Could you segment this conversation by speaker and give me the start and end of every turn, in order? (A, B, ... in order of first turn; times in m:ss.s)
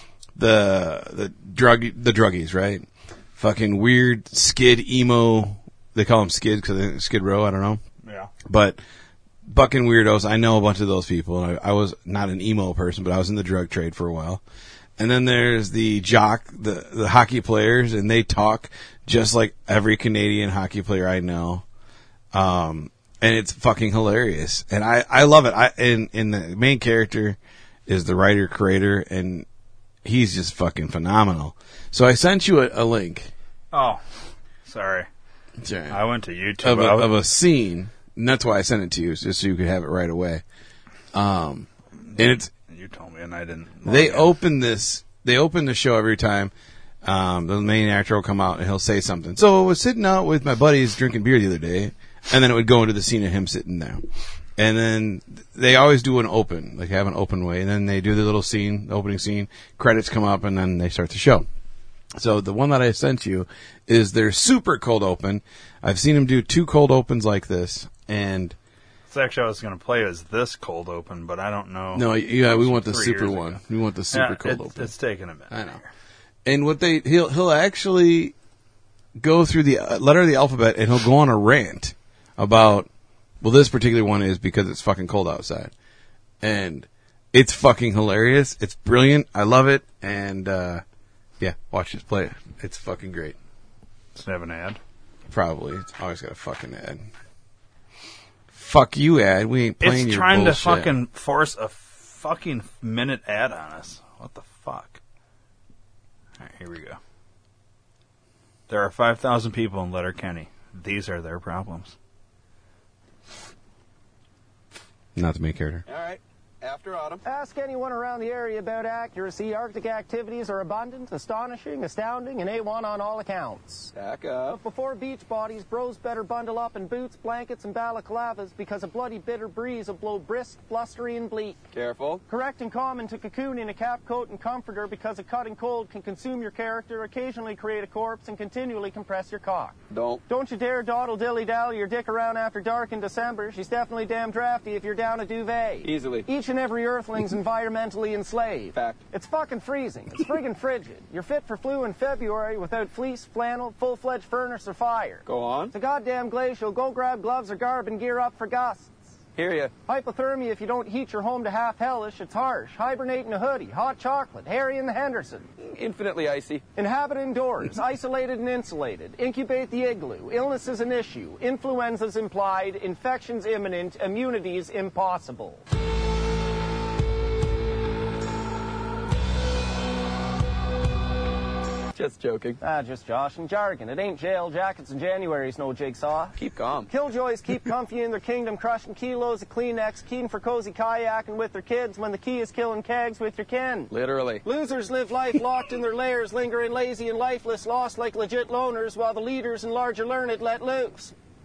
0:00.4-0:07.8 A
0:08.0-0:08.3 B
0:08.4-0:08.8 A
0:09.4-0:14.4 A
0:15.0-0:21.6 A
0:22.3-0:29.4 A
0:30.0-0:33.3 A
0:33.7-0:34.0 B
0:34.6-0:35.1 B
0:35.6-0:36.0 A
0:35.9-0:37.1 B
0:36.6-0:40.4 A
0:41.1-0:42.5 A
0:42.1-0:44.3 B
0:43.8-0:46.5 A
0:47.0-0:54.0 A
0:54.6-1:01.4 A
1:02.1-1:08.6 A
1:09.1-1:13.6 B
1:11.9-1:14.9 A
1:14.1-1:15.8 B
1:15.5-1:15.8 A
1:16.4-1:18.3 A
1:19.2-1:22.9 A
1:23.4-1:25.7 A
1:26.4-1:30.8 A
1:31.4-1:33.4 A
1:34.1-1:34.8 B
1:35.3-1:37.0 A
1:38.5-1:40.9 A
1:39.8-1:45.0 B
1:46.4-1:47.0 B
1:48.7-1:51.9 B
1:55.1-1:55.8 A
1:55.8-1:57.2 C
1:57.2-2:03.9 D
2:03.9-2:04.6 C
2:04.6-2:11.6 D
2:11.7-2:12.2 C
2:12.3-2:39.1 D
2:19.9-2:20.2 C
2:25.8-2:26.2 C
2:28.7-2:29.0 C
2:35.2-2:35.7 C
2:39.4-2:39.7 C
2:39.8-2:45.5 D
2:45.6-2:46.6 C
2:46.8-2:55.6 D
3:01.9-3:02.6 C
3:02.6-3:06.4 D
3:06.4-3:06.9 C
3:06.9-3:13.9 D
3:13.9-3:14.4 C
3:14.4-3:21.1 D